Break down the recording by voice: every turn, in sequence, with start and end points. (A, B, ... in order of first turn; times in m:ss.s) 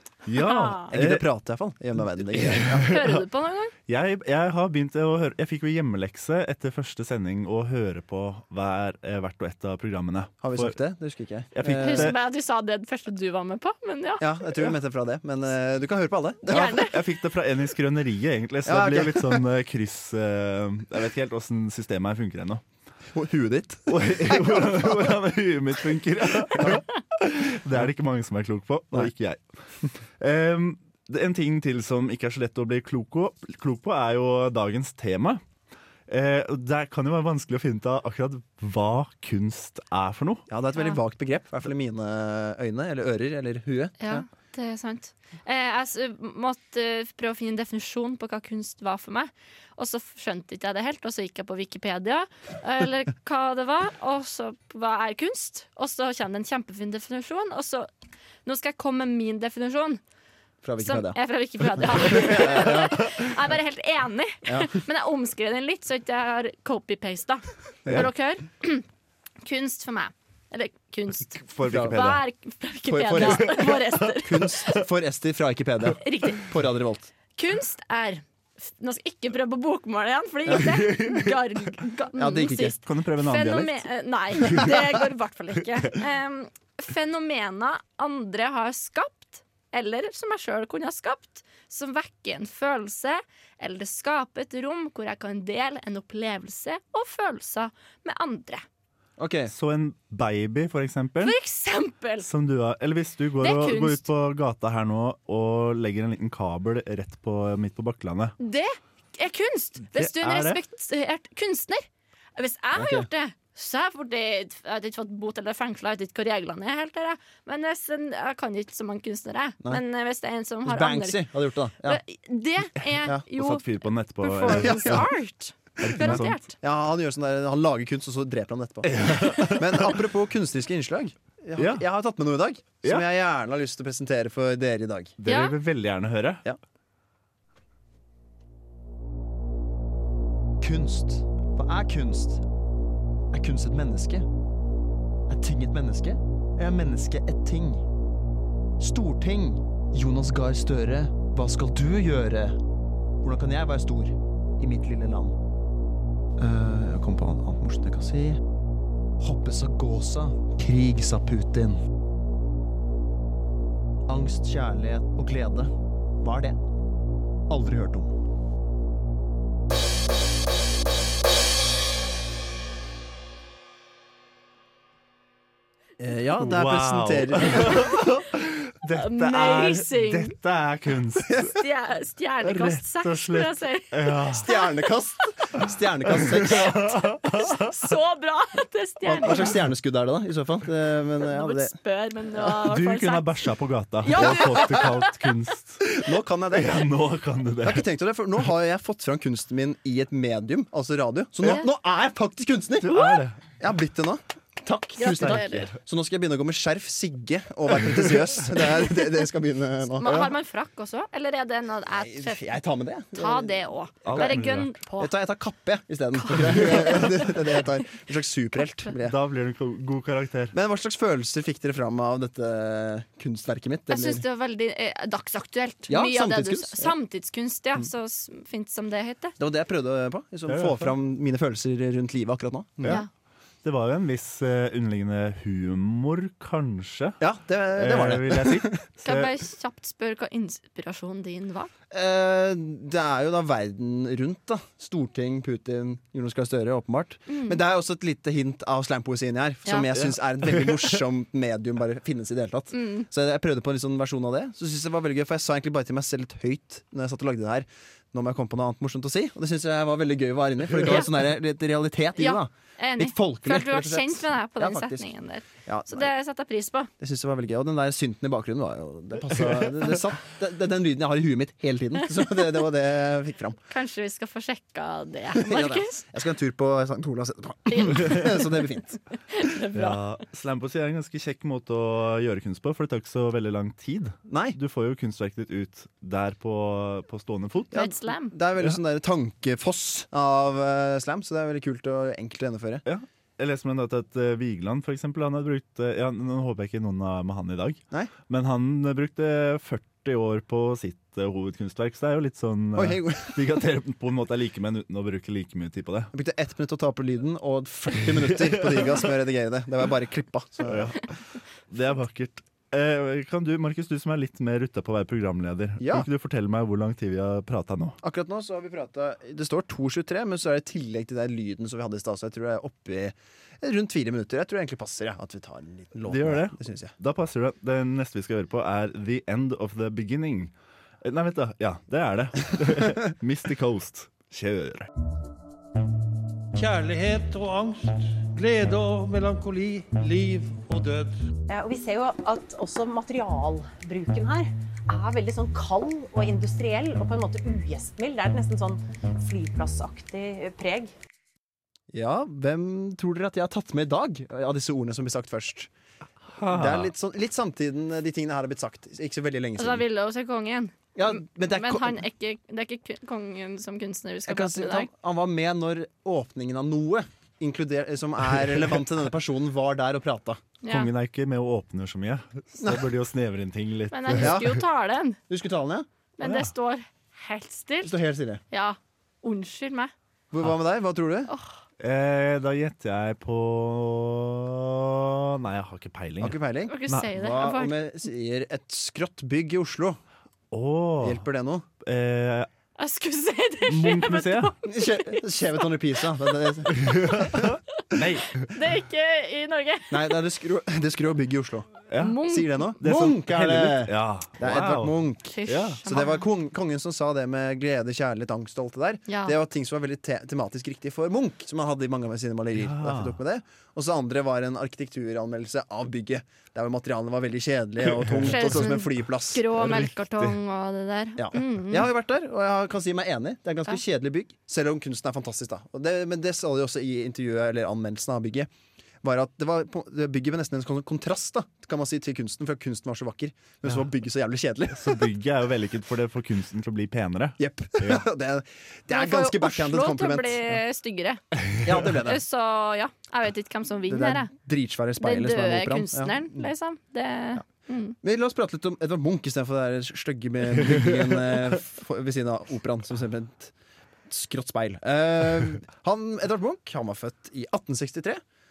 0:00.2-0:01.2 A
0:00.3-0:00.9 B
0:00.9-0:02.9 C
0:02.0-0:03.2 A
0:02.8-0:03.7 B
0:03.9-0:10.8 A
0:10.4-0:12.1 C
0:11.5-0:12.2 A
0:11.8-0:14.2 B
0:14.2-0:16.7 C
0:16.5-0:17.0 B
0:16.5-0:22.6 A
0:18.6-0:19.4 C
0:23.1-0:24.9 C
0:23.9-0:29.4 A
0:30.2-0:35.4 A
0:36.1-0:40.4 A
0:40.5-0:44.2 C
0:44.0-0:57.9 B
0:58.4-1:00.0 B
1:00.6-1:01.2 C
1:00.8-1:08.8 B
1:02.0-1:03.0 C
1:04.4-1:04.8 C
1:09.4-1:14.8 B
1:11.4-1:12.2 A
1:11.6-1:12.0 C
1:12.9-1:17.1 C
1:13.2-1:13.7 A
1:15.9-1:16.5 B
1:17.4-1:38.6 B
1:20.6-1:21.3 A
1:22.2-1:22.8 C
1:22.8-1:23.8 A
1:39.2-1:39.5 C
1:39.5-1:41.4 A
1:41.2-1:42.3 B
1:42.2-1:48.4 A
1:43.4-1:44.0 B
1:48.4-2:01.3 B
1:49.9-1:50.6 A
1:52.7-1:53.1 C
2:00.6-2:02.0 C
2:01.8-2:06.5 B
2:03.3-2:05.1 A
2:04.5-2:05.0 C
2:05.8-2:06.4 A
2:05.9-2:15.1 C
2:08.8-2:10.0 A
2:11.6-2:11.8 A
2:15.2-2:16.4 A
2:15.2-2:15.6 B
2:20.6-2:22.4 C
2:23.3-2:24.3 C
2:25.3-2:27.8 C
2:28.8-2:32.6 C
2:33.2-2:35.3 C
2:36.4-2:38.4 C
2:39.2-2:41.8 C
2:44.1-2:46.6 C
2:47.5-2:48.1 C
2:56.0-2:57.9 C
2:56.4-3:01.5 A
2:58.9-3:00.3 B
3:01.4-3:04.0 B
3:02.4-3:04.4 A
3:04.3-3:06.8 C
3:06.4-3:07.6 A
3:06.5-3:09.5 B
3:09.1-3:11.7 C
3:11.2-3:13.4 B
3:12.6-3:15.8 A
3:14.0-3:15.3 B
3:14.2-3:14.7 C
3:15.8-3:16.9 C
3:16.5-3:17.8 A
3:17.6-3:23.0 C
3:22.8-3:23.4 A
3:23.6-3:30.2 C
3:25.0-3:25.7 B
3:25.2-3:25.7 A
3:29.9-3:32.4 B
3:31.9-3:34.4 C
3:33.1-3:35.1 B
3:34.0-3:34.7 A
3:35.0-3:39.2 C
3:36.3-3:37.2 B
3:39.0-3:40.5 A
3:40.5-3:44.2 C
3:43.9-3:49.3 B
3:45.9-3:46.9 C
3:49.4-3:53.0 C
3:50.5-3:50.9 A
3:53.6-3:57.2 A
3:57.2-3:58.8 C
3:57.7-3:59.3 A
3:59.0-4:01.7 B
4:01.9-4:25.1 C
4:07.3-4:07.6 B
4:12.7-4:13.1 B
4:22.2-4:26.9 B
4:25.6-4:26.1 C
4:27.0-4:33.6 C
4:33.7-4:36.0 B
4:35.3-4:39.0 C
4:37.7-4:38.7 B
4:39.3-4:40.0 B
4:39.7-4:47.8 A
4:44.3-4:44.6 C
4:47.7-4:48.3 B
4:47.7-4:52.8 C
4:52.8-5:06.1 A
5:02.7-5:03.4 C
5:06.1-5:11.0 C
5:08.1-5:09.0 A
5:10.6-5:11.1 A
5:11.7-5:18.0 A
5:15.8-5:16.0 C
5:18.0-5:26.9 C
5:26.0-5:34.9 A
5:36.6-5:41.0 D
5:41.5-5:50.9 E
5:51.9-5:55.7 C
5:56.3-5:56.9 A
5:56.4-5:59.8 C
5:59.6-6:04.9 B
6:01.0-6:02.0 C
6:04.3-6:10.4 C
6:10.6-6:10.9 B
6:10.7-6:14.6 A
6:12.6-6:12.8 C
6:13.9-6:15.2 B
6:14.2-6:14.6 C
6:15.3-6:15.9 C
6:16.2-6:18.0 B
6:16.2-6:16.5 A
6:17.8-6:18.4 C
6:18.5-6:19.9 B
6:20.3-6:21.3 C
6:21.8-6:26.4 A
6:26.2-6:30.0 C
6:26.7-6:27.7 B
6:30.5-6:31.2 A
6:31.0-6:31.6 C
6:31.8-6:32.5 A
6:32.8-6:35.2 B
6:33.7-6:34.5 A
6:34.6-6:37.3 C
6:36.7-6:38.4 A
6:38.4-6:40.1 B
6:39.9-6:41.7 C
6:41.9-6:42.2 A
6:42.0-6:42.7 B
6:42.2-6:59.4 C
6:42.8-6:45.8 A
6:45.3-6:46.2 B
6:49.1-6:49.3 B
6:52.6-6:53.2 A
6:58.0-6:58.4 A
6:58.3-7:01.9 B
6:59.5-7:00.4 A
7:01.2-7:08.5 C
7:09.0-7:15.0 C
7:14.7-7:18.0 A
7:17.4-7:20.6 C
7:18.9-7:24.3 B
7:21.6-7:22.2 C
7:23.9-7:26.5 C
7:25.0-7:28.0 B
7:28.0-7:33.5 C
7:34.1-7:38.2 C